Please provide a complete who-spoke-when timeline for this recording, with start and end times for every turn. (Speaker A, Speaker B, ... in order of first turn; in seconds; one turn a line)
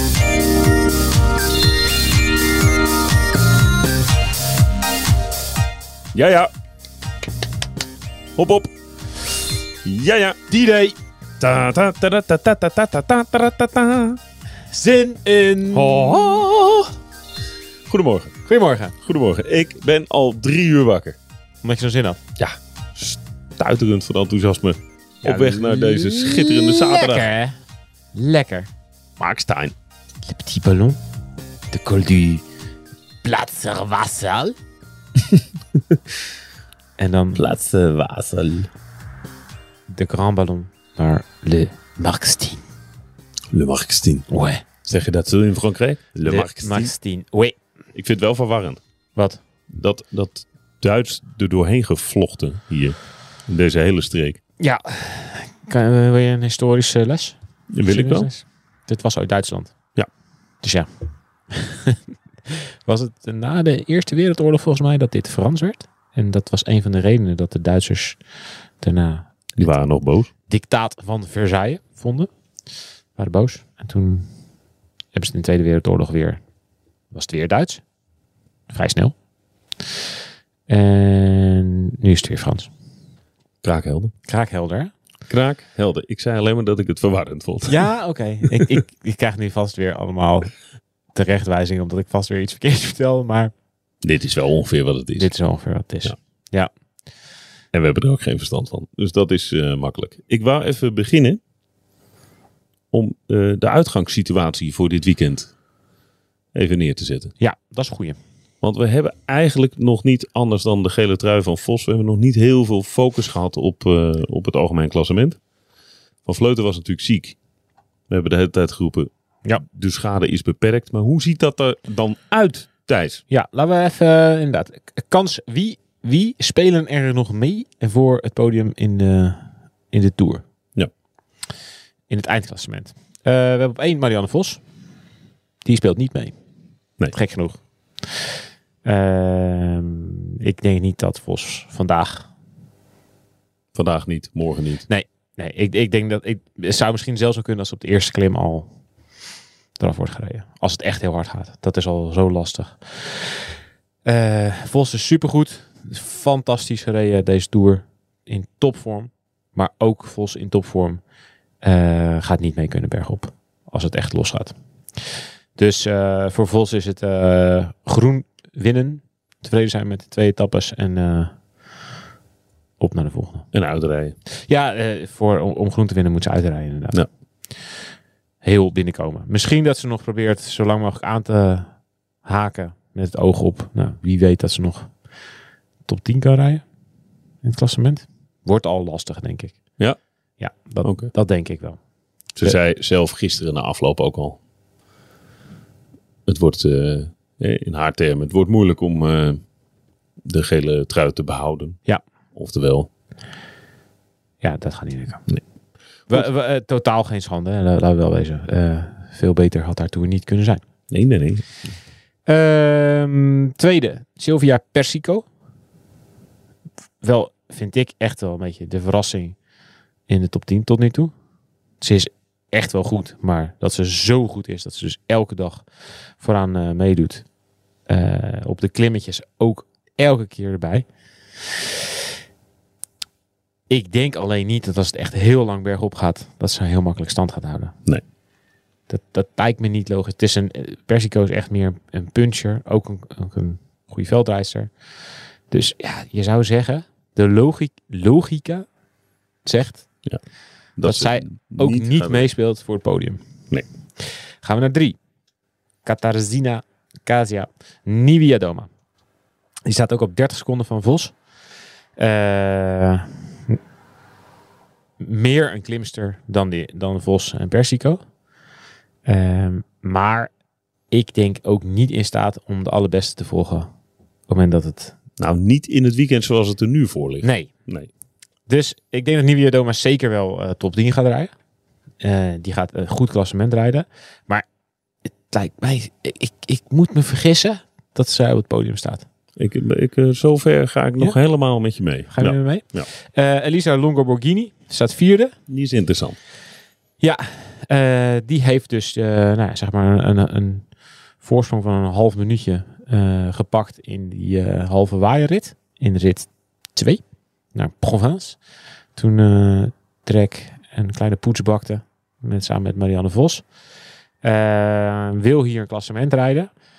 Speaker A: 6.1-6.5
Speaker A: 8.4-8.7
Speaker A: 9.8-10.4
Speaker B: 10.5-11.0
Speaker A: 11.4-14.2
Speaker B: 14.7-16.1
Speaker A: 15.7-16.9
Speaker A: 17.9-18.4
Speaker B: 18.5-18.9
Speaker A: 19.0-21.2
Speaker B: 21.6-22.2
Speaker A: 22.4-27.3
Speaker B: 25.2-27.6
Speaker B: 28.1-28.7
Speaker A: 29.2-29.8
Speaker B: 30.3-31.0
Speaker B: 31.7-32.4
Speaker B: 33.2-34.6
Speaker B: 37.0-37.4
Speaker A: 37.4-38.7
Speaker B: 39.9-42.6
Speaker A: 43.5-44.3
Speaker B: 44.3-44.6
Speaker A: 44.9-46.9
Speaker B: 46.2-47.6
Speaker A: 48.0-48.8
Speaker B: 49.1-49.4
Speaker A: 49.7-53.0
Speaker A: 53.5-54.4
Speaker B: 54.6-59.8
Speaker A: 57.7-58.3
Speaker B: 60.6-60.9
Speaker B: 61.5-68.2
Speaker B: 68.8-69.7
Speaker A: 69.6-70.3
Speaker B: 70.5-72.3
Speaker B: 73.2-74.3
Speaker B: 75.1-76.4
Speaker B: 77.1-77.8
Speaker B: 78.7-79.2
Speaker B: 80.7-82.7
Speaker A: 83.6-84.1
Speaker B: 84.3-84.9
Speaker A: 85.3-87.9
Speaker B: 87.7-90.5
Speaker A: 88.5-88.8
Speaker B: 91.1-93.5
Speaker A: 94.0-95.3
Speaker B: 95.2-96.7
Speaker A: 97.7-101.4
Speaker A: 102.9-105.5
Speaker A: 106.5-107.3
Speaker B: 107.4-108.2
Speaker A: 108.6-115.4
Speaker A: 116.2-117.4
Speaker A: 118.1-123.2
Speaker B: 123.3-130.4
Speaker B: 132.1-134.6
Speaker B: 135.7-136.4
Speaker B: 137.1-137.6
Speaker B: 138.8-142.3
Speaker A: 143.7-144.9
Speaker B: 144.9-148.7
Speaker B: 149.8-153.5
Speaker B: 154.1-161.0
Speaker B: 161.6-171.3
Speaker B: 172.8-173.5
Speaker A: 173.5-174.2
Speaker B: 174.3-177.0
Speaker B: 178.4-181.7
Speaker B: 182.2-184.9
Speaker B: 185.9-186.6
Speaker B: 187.4-189.6
Speaker B: 190.4-191.8
Speaker A: 190.8-191.1
Speaker A: 192.4-194.4
Speaker A: 196.3-199.4
Speaker A: 200.2-201.8
Speaker A: 202.3-202.9
Speaker B: 204.4-205.3
Speaker B: 206.1-210.6
Speaker A: 210.9-211.5
Speaker B: 212.3-215.3
Speaker B: 217.0-219.4
Speaker B: 220.1-221.1
Speaker B: 221.8-225.7
Speaker B: 226.2-227.3
Speaker B: 227.9-230.9
Speaker B: 233.7-237.8
Speaker B: 238.9-244.7
Speaker B: 245.5-248.7
Speaker B: 249.4-249.9
Speaker A: 250.8-252.3
Speaker B: 250.8-253.2
Speaker B: 254.0-255.0
Speaker B: 255.8-258.7
Speaker B: 259.7-261.2
Speaker B: 262.0-263.6
Speaker B: 265.0-268.0
Speaker B: 269.1-270.3
Speaker B: 270.9-273.7
Speaker B: 274.3-274.9
Speaker A: 275.2-277.9
Speaker B: 277.2-277.5
Speaker B: 278.5-281.3
Speaker B: 282.0-284.4
Speaker B: 285.2-289.1
Speaker A: 289.4-292.9
Speaker B: 292.1-295.3
Speaker A: 295.5-296.2
Speaker B: 297.0-300.7
Speaker B: 301.2-307.0
Speaker B: 307.5-308.4
Speaker B: 309.0-313.5
Speaker B: 314.2-316.5